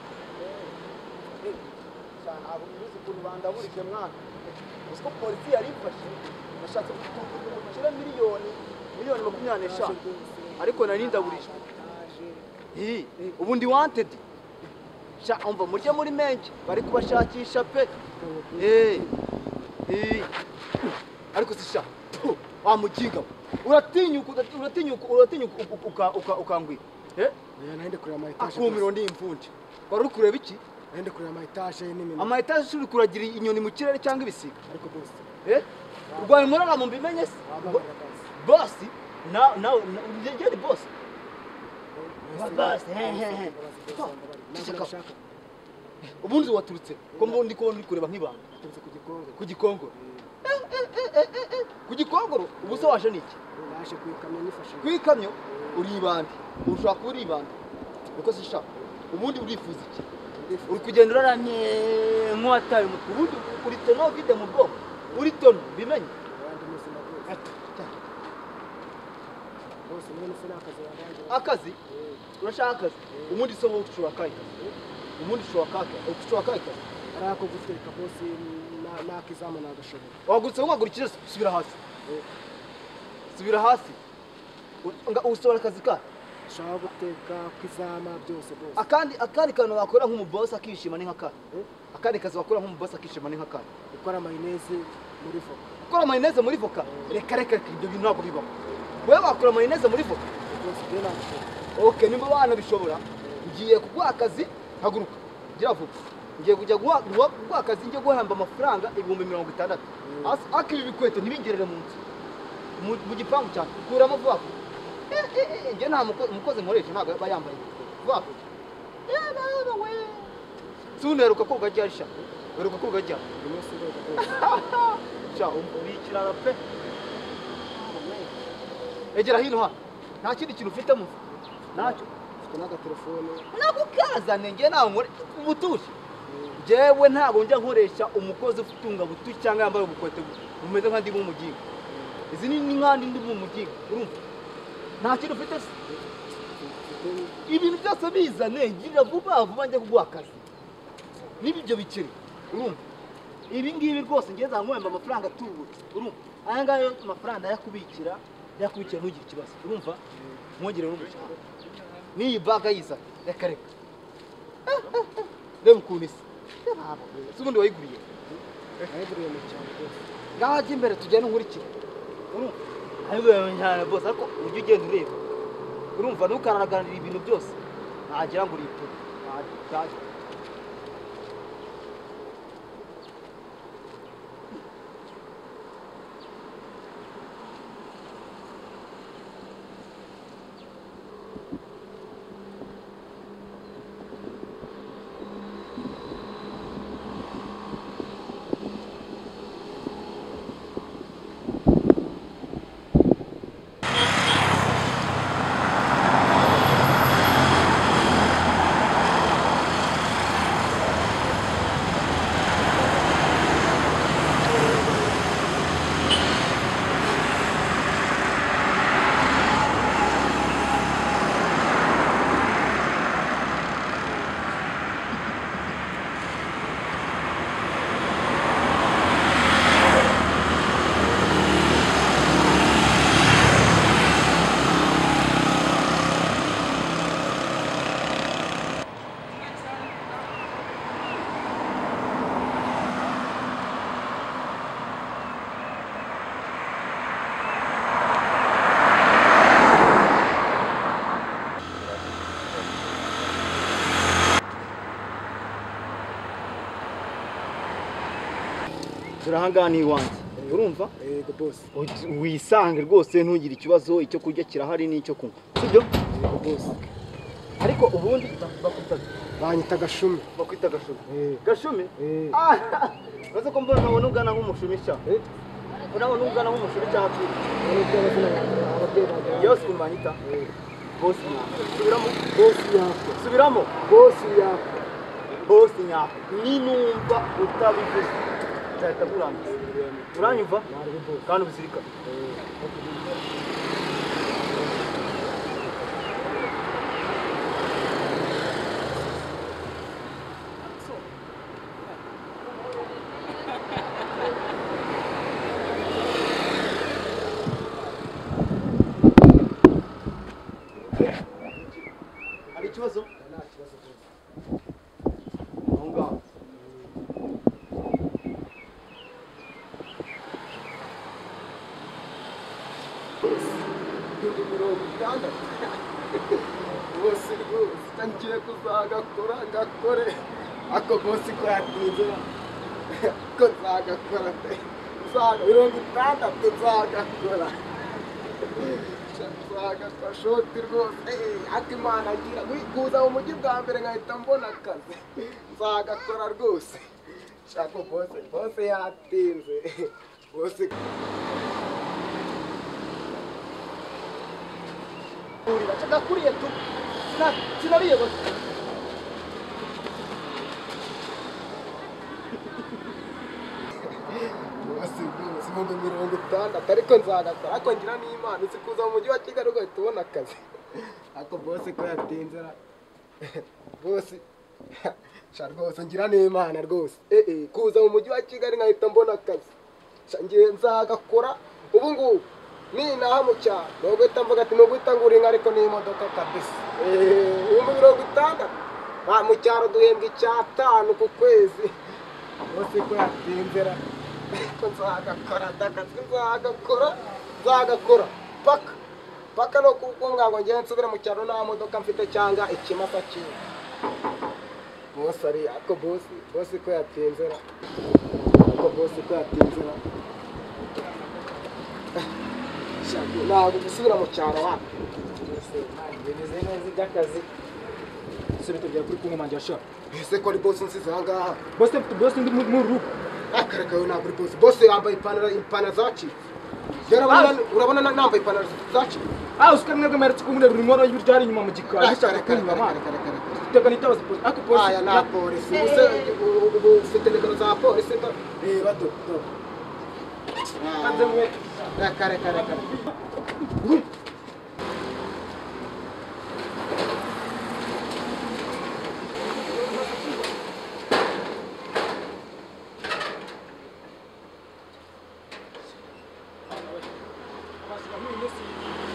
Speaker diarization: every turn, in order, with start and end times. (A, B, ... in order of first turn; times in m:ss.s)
0:00.4-0:00.7 A
0:01.4-0:01.6 A
0:02.2-0:04.2 A
0:04.9-0:10.0 A
0:09.2-0:12.5 B
0:10.6-0:11.5 A
0:12.7-0:14.2 A
0:15.2-0:17.9 A
0:18.2-0:19.4 B
0:18.6-0:19.1 A
0:19.9-0:20.3 A
0:21.3-0:27.4 A
0:27.6-0:28.9 B
0:28.4-0:30.6 A
0:30.9-0:32.4 B
0:32.2-0:34.6 A
0:34.7-0:35.2 B
0:35.4-0:37.8 A
0:36.1-0:36.6 B
0:37.4-0:38.3 B
0:38.4-0:40.9 A
0:42.0-0:45.2 B
0:42.3-0:44.9 A
0:46.2-0:48.5 A
0:47.1-0:47.5 B
0:48.5-0:50.3 B
0:49.4-0:53.4 A
0:52.7-0:53.0 B
0:53.6-0:55.9 B
0:54.8-0:57.5 A
0:58.1-1:00.0 A
1:00.3-1:01.3 B
1:00.7-1:06.1 A
1:06.3-1:07.3 B
1:07.3-1:08.0 A
1:09.9-1:12.2 B
1:11.3-1:11.8 A
1:12.4-1:16.8 A
1:13.1-1:13.5 B
1:17.1-1:20.2 B
1:20.2-1:21.8 A
1:23.3-1:24.0 A
1:24.8-1:26.0 A
1:26.5-1:28.8 B
1:28.8-1:31.4 A
1:31.9-1:33.7 A
1:33.9-1:35.7 B
1:35.8-1:38.5 A
1:36.8-1:37.2 B
1:39.0-1:40.3 A
1:40.5-1:41.6 B
1:41.8-1:52.0 A
1:50.0-1:50.4 B
1:52.8-1:54.6 A
1:55.1-1:58.5 A
1:59.1-2:00.3 A
2:01.0-2:03.3 A
2:03.4-2:04.5 B
2:04.2-2:06.6 A
2:07.7-2:08.3 A
2:09.1-2:11.2 A
2:11.7-2:12.1 A
2:11.7-2:13.5 B
2:13.5-2:16.0 A
2:16.3-2:16.6 B
2:16.6-2:21.6 A
2:21.9-2:22.2 B
2:22.3-2:24.2 A
2:25.0-2:25.7 A
2:26.6-2:27.4 B
2:27.5-2:30.4 A
2:31.4-2:32.8 A
2:33.5-2:40.0 A
2:40.6-2:41.4 A
2:42.1-2:43.7 A
2:44.7-2:48.1 A
2:48.9-2:50.0 B
2:50.4-2:51.7 A
2:52.3-2:55.2 A
2:56.0-2:57.6 A
2:58.1-3:00.0 A
4:19.2-4:20.9 A
4:20.4-4:21.7 B
4:21.7-4:25.9 A
4:26.1-4:26.9 B
4:27.6-4:29.1 A
4:29.4-4:30.3 B
4:30.3-4:35.0 A
4:31.1-4:31.4 B
4:32.0-4:32.4 B
4:35.8-4:37.5 A
4:37.6-4:39.7 B
4:39.3-4:40.2 A
4:40.2-4:40.5 B
4:41.0-4:42.4 A
4:42.3-4:43.2 B
4:43.1-4:43.7 A
4:43.8-4:44.9 B
4:45.4-4:49.6 A
4:49.4-4:51.3 B
4:50.1-4:50.7 A
4:51.2-4:51.9 A
4:52.0-4:53.3 B
4:54.3-4:55.6 B
5:11.0-5:11.8 B
5:12.5-5:14.1 B
5:12.5-5:13.1 A
5:15.7-5:16.2 A
5:16.5-5:17.0 B
5:24.2-5:32.3 B
5:32.9-5:37.6 B
5:38.5-5:46.8 B
5:47.5-5:51.0 B
5:55.4-5:58.3 A
6:04.0-6:12.6 B
6:13.2-6:14.2 B
6:14.8-6:19.5 B
6:20.1-6:31.8 B
6:32.5-6:33.8 B
6:34.3-6:38.8 B
6:39.4-6:43.4 B
6:44.9-6:47.4 B
6:48.4-6:49.8 B
6:52.8-6:54.7 B
6:55.2-6:55.7 B
6:55.6-6:57.3 C
6:58.4-6:59.6 C
6:59.9-7:01.5 B
7:01.6-7:02.9 C
7:03.3-7:06.2 B
7:06.9-7:09.1 B
7:09.4-7:12.8 C
7:11.6-7:13.4 B
7:13.4-7:15.1 C
7:14.5-7:18.4 B
7:15.6-7:16.1 A
7:18.4-7:19.2 C
7:18.9-7:19.2 B
7:20.6-7:21.2 A
7:20.8-7:23.0 C
7:21.7-7:22.8 B
7:23.6-7:23.9 C
7:29.4-7:30.4 C
7:36.5-7:36.8 C
7:37.6-7:38.6 C